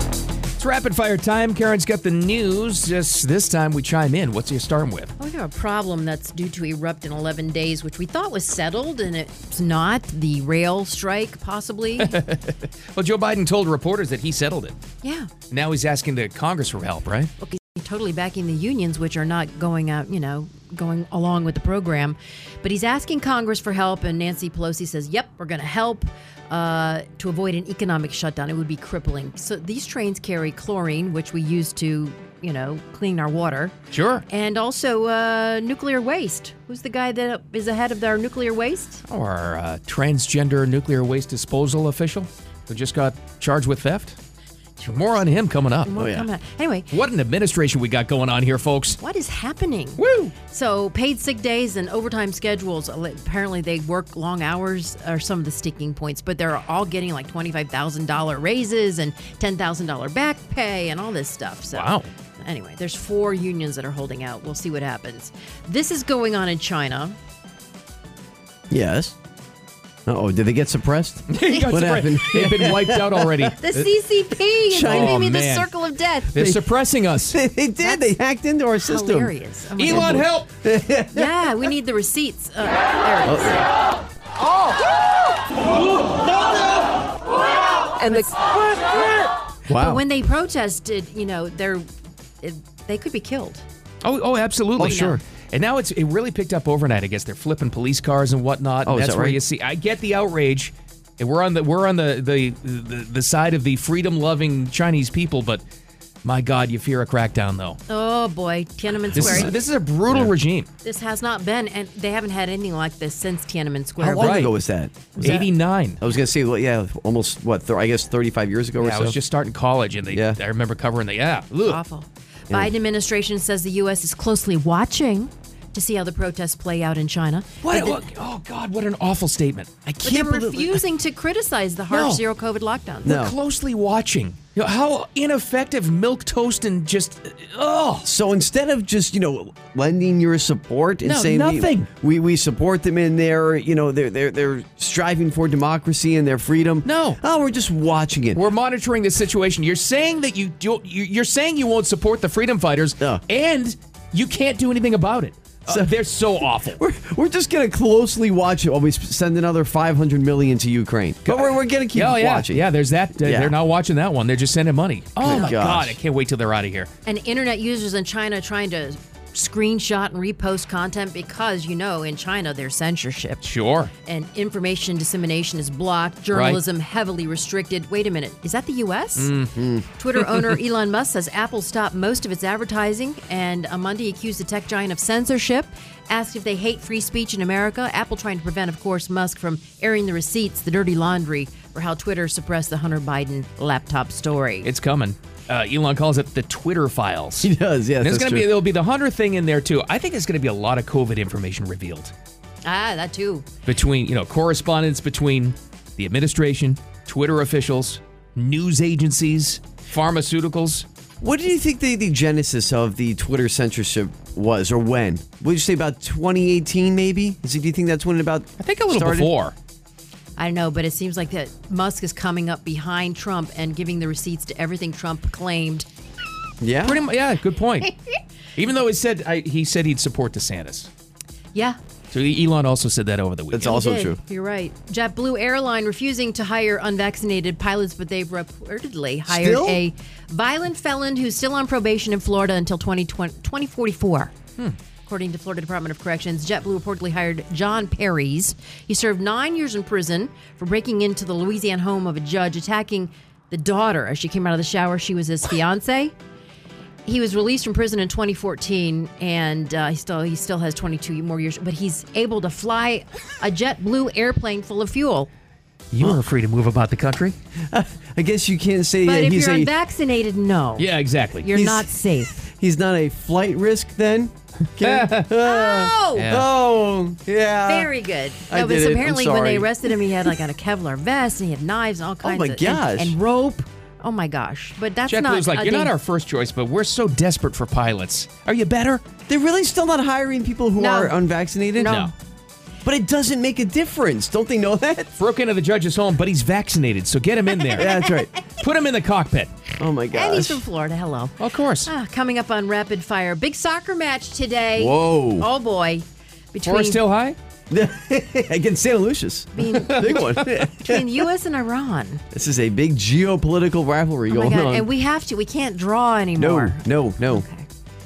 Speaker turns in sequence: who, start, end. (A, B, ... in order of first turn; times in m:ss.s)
0:00.6-0:05.1 A
0:05.2-0:12.1 B
0:12.0-0:14.8 A
0:15.0-0:15.3 B
0:15.5-0:17.3 A
0:17.4-0:33.8 B
0:33.9-0:34.2 A
0:34.3-0:39.0 B
0:39.0-0:44.2 A
0:44.8-0:45.9 A
0:45.8-0:46.9 B
0:46.0-0:46.3 C
0:46.9-0:49.0 A
0:49.0-1:07.2 B
0:50.0-0:50.4 A
1:01.7-1:02.1 A
1:08.7-1:09.2 C
1:10.1-1:13.9 C
1:11.3-1:13.7 A
1:13.6-1:16.3 B
1:14.7-1:15.2 C
1:14.7-1:17.4 A
1:16.4-1:16.7 C
1:17.3-1:19.3 C
1:17.8-1:18.2 B
1:18.8-1:20.2 B
1:19.8-1:20.5 A
1:19.9-1:21.7 C
1:21.1-1:23.7 B
1:23.2-1:23.7 C
1:28.0-1:28.4 B
1:29.7-1:30.0 C
1:29.7-1:31.8 B
1:32.4-1:33.6 B
1:34.0-1:45.6 A
1:34.8-1:35.2 C
1:34.8-1:35.2 B
1:38.8-1:39.4 C
1:46.2-1:47.8 A
1:47.9-1:49.5 B
1:49.1-1:49.5 C
1:49.1-1:50.7 A
1:50.8-1:54.4 B
1:54.0-1:55.4 C
1:54.1-1:54.5 A
1:55.2-1:55.5 B
1:55.2-1:56.0 A
1:56.0-1:59.2 C
1:58.8-2:01.8 A
2:00.1-2:00.4 C
2:01.6-2:08.0 B
2:07.6-2:09.8 A
2:09.9-2:10.8 C
2:10.0-2:13.2 B
2:11.9-2:12.2 A
2:13.0-2:18.1 A
2:13.0-2:13.4 C
2:18.0-2:28.4 C
2:21.0-2:21.9 A
2:26.8-2:27.2 A
2:28.3-2:36.8 A
2:35.7-2:35.9 C
2:36.6-2:42.6 C
2:41.2-2:46.9 A
2:43.2-2:43.5 C
2:45.2-2:46.0 C
2:45.3-2:45.5 B
2:47.0-2:53.5 B
2:53.4-2:53.9 A
2:54.0-2:59.3 B
2:56.3-2:56.6 A
2:59.2-3:00.5 A
2:59.6-2:59.8 C
3:00.0-3:14.7 B
3:14.6-3:22.1 A
3:17.4-3:18.5 C
3:22.6-3:23.5 B
3:23.7-3:30.9 A
3:31.2-3:39.3 C
3:38.6-3:39.5 A
3:40.4-3:45.9 B
3:46.6-3:47.0 C
3:46.8-3:47.9 A
3:48.6-3:50.9 A
3:52.1-3:53.8 A
3:53.5-3:54.2 C
3:53.6-4:04.3 B
3:59.3-3:59.8 C
4:05.0-4:16.1 B
4:17.0-4:25.3 B
4:25.9-4:27.4 A
4:27.7-4:29.7 C
4:29.0-4:30.9 B
4:30.8-4:31.5 A
4:31.4-4:32.4 B
4:31.5-4:37.9 C
4:34.8-4:35.3 A
4:35.4-4:36.4 B
4:36.2-4:36.5 A
4:37.7-4:45.9 B
4:38.5-4:40.3 C
4:42.2-4:43.2 C
4:45.1-4:49.0 A
4:49.3-4:52.0 C
4:50.8-4:51.2 B
4:51.8-4:52.1 B
4:51.9-4:52.1 A
4:52.8-4:55.2 C
4:55.2-4:57.9 A
4:57.7-4:58.1 B
4:57.8-4:58.3 C
4:58.6-4:59.5 A
4:59.8-5:00.6 C
5:00.1-5:07.0 B
5:01.4-5:01.9 A
5:04.8-5:05.5 C
5:06.7-5:07.4 A
5:07.7-5:11.1 C
5:09.6-5:12.2 B
5:12.3-5:14.9 C
5:14.3-5:17.7 B
5:16.4-5:17.4 C